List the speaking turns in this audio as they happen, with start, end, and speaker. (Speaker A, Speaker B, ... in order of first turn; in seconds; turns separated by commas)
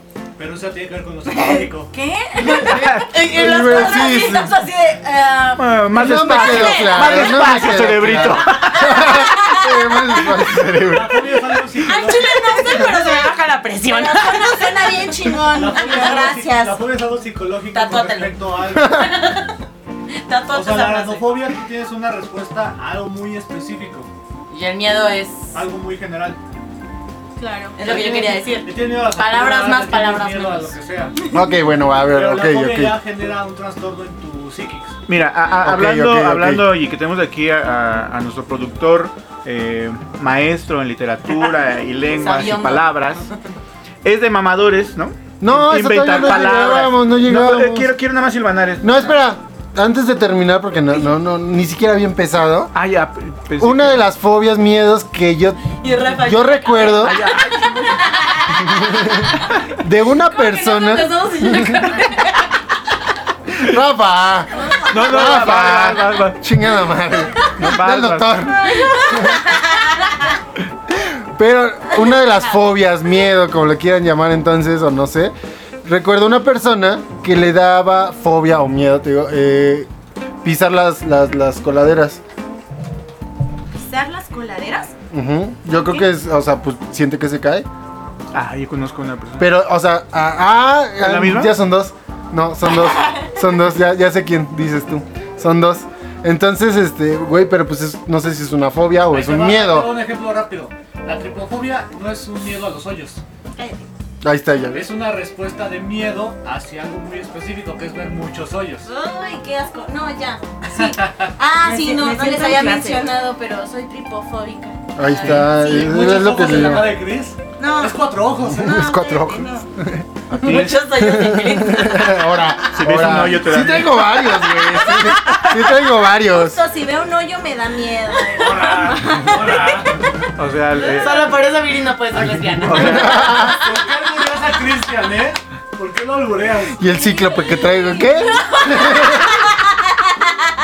Speaker A: 0.4-1.9, Speaker B: 1.3-5.6, Speaker C: 2.4-5.6, Speaker D: 2.7-3.1, Speaker E: 3.3-4.6, Speaker D: 5.6-8.9, Speaker E: 5.9-11.4, Speaker C: 6.4-7.1, Speaker B: 6.5-6.7, Speaker B: 8.7-9.7, Speaker C: 9.0-9.3, Speaker A: 10.8-12.8, Speaker C: 11.8-15.1, Speaker B: 11.9-13.3, Speaker B: 13.8-16.8, Speaker A: 15.4-19.1, Speaker C: 17.7-19.6, Speaker E: 18.9-19.1, Speaker C: 20.1-21.5, Speaker A: 20.5-24.1, Speaker C: 24.5-25.6, Speaker A: 25.5-26.4, Speaker B: 27.4-28.6, Speaker C: 27.8-30.8, Speaker A: 28.6-31.2, Speaker E: 31.3-33.0, Speaker A: 32.0-35.0, Speaker D: 35.1-43.3, Speaker E: 35.6-36.7, Speaker C: 42.2-43.4, Speaker D: 44.0-49.1, Speaker E: 45.4-47.9, Speaker E: 48.8-52.7, Speaker D: 52.7-54.0, Speaker E: 53.6-57.2, Speaker C: 55.8-59.6, Speaker D: 57.0-58.0, Speaker E: 58.6-62.0, Speaker C: 60.2-62.5, Speaker E: 63.5-69.5, Speaker B: 64.5-65.4, Speaker D: 64.9-66.4, Speaker D: 67.6-68.5, Speaker B: 68.6-70.3, Speaker E: 70.9-79.9, Speaker E: 80.4-82.2, Speaker B: 83.8-85.0, Speaker E: 85.1-87.7, Speaker B: 85.7-86.1, Speaker D: 88.3-89.6, Speaker E: 89.4-99.9, Speaker D: 91.0-91.6, Speaker A: 99.1-103.2, Speaker B: 103.6-103.9, Speaker E: 104.2-104.9, Speaker A: 104.7-108.9, Speaker B: 108.8-115.8, Speaker A: 110.7-111.3, Speaker C: 111.6-113.2, Speaker E: 115.0-116.9, Speaker A: 115.2-118.8, Speaker B: 116.4-116.9, Speaker B: 117.6-119.7, Speaker E: 118.5-126.6, Speaker C: 120.4-122.5, Speaker D: 120.4-120.8, Speaker D: 122.7-124.3, Speaker B: 124.6-125.4, Speaker B: 126.2-130.0, Speaker A: 128.3-130.0, Speaker D: 130.4-131.3, Speaker C: 130.8-133.9, Speaker D: 132.6-133.4, Speaker E: 132.7-133.6, Speaker A: 133.0-136.8, Speaker E: 136.8-139.4, Speaker B: 136.8-139.3